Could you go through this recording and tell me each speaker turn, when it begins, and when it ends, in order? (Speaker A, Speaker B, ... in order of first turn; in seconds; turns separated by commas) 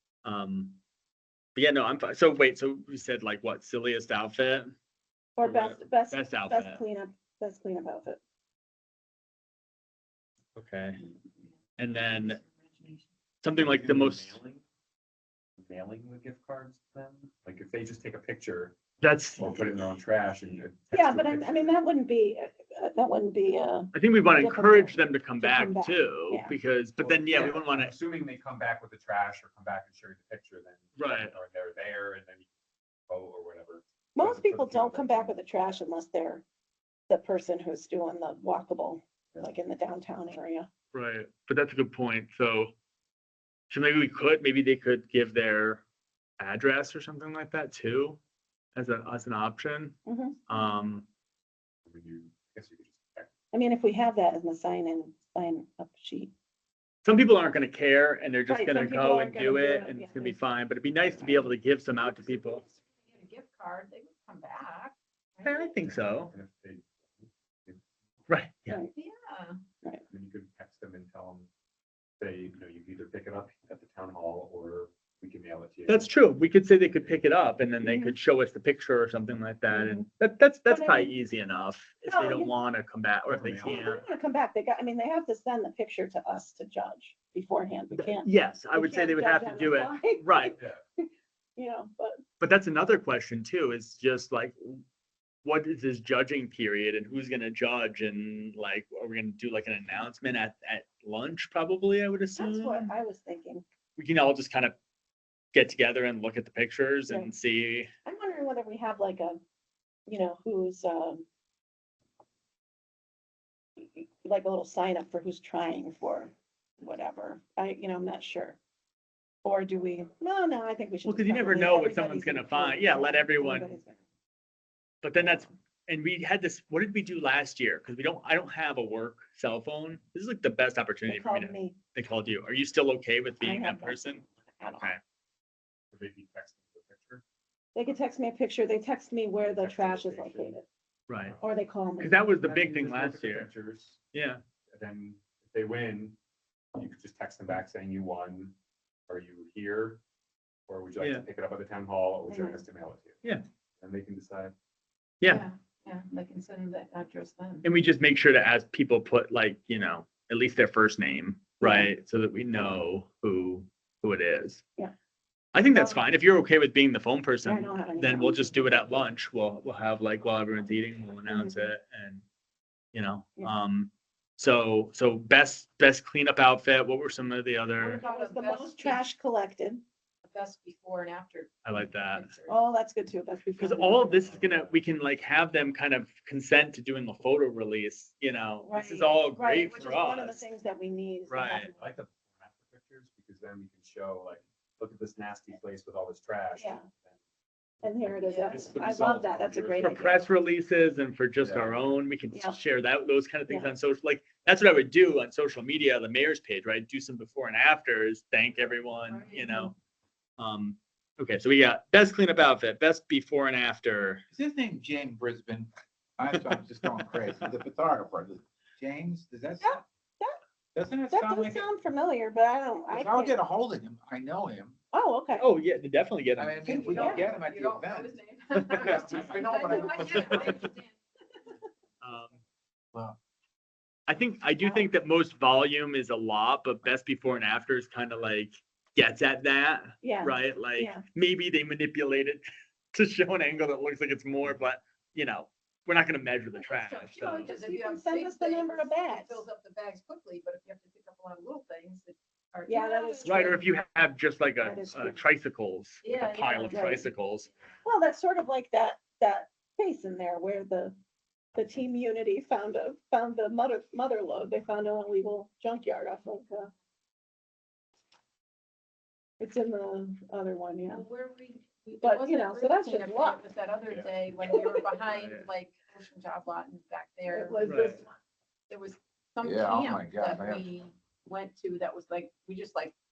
Speaker A: 0.2-0.8, Speaker A: 1.6-4.7, Speaker B: 5.4-8.2, Speaker A: 5.4-6.8, Speaker A: 10.6-11.0, Speaker A: 11.8-12.4, Speaker C: 12.0-13.1, Speaker A: 13.4-14.4, Speaker D: 13.5-14.6, Speaker D: 15.6-18.8, Speaker A: 19.0-19.7, Speaker D: 19.4-21.8, Speaker B: 20.9-26.6, Speaker A: 23.9-27.9, Speaker D: 27.0-32.5, Speaker A: 31.0-31.4, Speaker D: 33.1-35.4, Speaker B: 34.2-36.4, Speaker B: 37.1-40.7, Speaker A: 40.9-42.8, Speaker A: 43.7-45.8, Speaker A: 46.4-48.2, Speaker A: 48.8-51.1, Speaker B: 50.0-50.4, Speaker D: 51.9-53.3, Speaker B: 53.5-56.3, Speaker A: 57.0-62.6, Speaker B: 58.5-60.4, Speaker B: 61.0-61.5, Speaker C: 62.2-65.7, Speaker A: 65.4-66.3, Speaker D: 65.8-67.8, Speaker A: 68.3-68.8, Speaker C: 69.0-69.6, Speaker D: 70.1-71.5, Speaker D: 72.2-76.1, Speaker A: 75.9-84.0, Speaker B: 77.8-78.2, Speaker B: 79.7-80.1, Speaker B: 80.7-81.2, Speaker B: 82.1-82.5, Speaker D: 83.3-83.9, Speaker B: 83.7-92.2, Speaker A: 87.9-90.5, Speaker A: 92.4-94.8, Speaker A: 95.4-103.0, Speaker B: 102.4-103.7, Speaker A: 104.0-104.8, Speaker A: 105.5-107.9, Speaker B: 108.0-109.4, Speaker B: 110.1-111.3, Speaker B: 113.8-118.6, Speaker B: 119.4-124.0, Speaker A: 121.0-123.7, Speaker A: 125.0-134.2, Speaker B: 131.1-131.8, Speaker B: 133.4-134.9, Speaker D: 135.9-137.2, Speaker B: 137.8-140.7, Speaker D: 139.4-140.6, Speaker A: 141.1-141.3, Speaker D: 141.2-141.6, Speaker B: 141.4-142.2, Speaker A: 142.0-143.5, Speaker D: 142.4-144.0, Speaker A: 144.1-144.4, Speaker D: 144.7-146.2, Speaker D: 146.8-148.6, Speaker D: 149.1-150.0, Speaker D: 150.7-153.2, Speaker A: 151.0-151.3, Speaker B: 152.3-152.6, Speaker D: 153.8-154.5, Speaker A: 155.2-155.5, Speaker C: 155.2-157.7, Speaker A: 157.6-164.6, Speaker B: 161.6-161.9, Speaker A: 165.5-172.2, Speaker C: 165.7-166.1, Speaker B: 167.4-168.8, Speaker B: 171.3-171.6, Speaker A: 172.9-178.0, Speaker C: 177.8-179.0, Speaker B: 178.0-179.8, Speaker C: 180.2-182.6, Speaker A: 181.7-182.3, Speaker B: 182.5-184.4, Speaker A: 183.6-190.5, Speaker D: 184.2-184.8, Speaker B: 188.6-191.9, Speaker A: 191.3-191.7, Speaker D: 191.8-197.2, Speaker B: 196.5-196.9, Speaker B: 197.8-200.2, Speaker C: 198.2-198.6, Speaker A: 198.5-209.8, Speaker D: 198.8-199.9, Speaker D: 201.4-201.8, Speaker B: 202.3-202.6, Speaker B: 203.5-203.7, Speaker C: 209.1-209.7, Speaker A: 210.4-214.2, Speaker E: 214.3-219.8, Speaker B: 219.6-220.4, Speaker E: 220.8-221.7, Speaker B: 221.1-223.4, Speaker E: 222.9-224.8, Speaker B: 224.9-225.4, Speaker A: 225.4-226.7, Speaker E: 226.4-228.2, Speaker C: 226.6-231.0, Speaker B: 226.9-227.2, Speaker E: 228.8-230.5, Speaker A: 230.2-230.5, Speaker A: 232.0-232.4, Speaker E: 232.9-233.2, Speaker A: 234.1-247.5, Speaker B: 234.6-234.9, Speaker B: 240.0-241.0, Speaker C: 246.7-253.6, Speaker B: 247.4-249.4, Speaker B: 252.7-253.6, Speaker A: 253.2-257.5, Speaker B: 254.6-255.2, Speaker C: 256.0-257.0, Speaker B: 256.7-257.1, Speaker B: 257.8-261.0, Speaker B: 261.6-266.7, Speaker B: 269.4-271.1, Speaker C: 270.9-277.6, Speaker B: 272.0-273.4, Speaker A: 275.1-275.5, Speaker B: 277.3-278.2, Speaker A: 277.6-278.0, Speaker C: 278.7-282.9, Speaker E: 279.4-280.7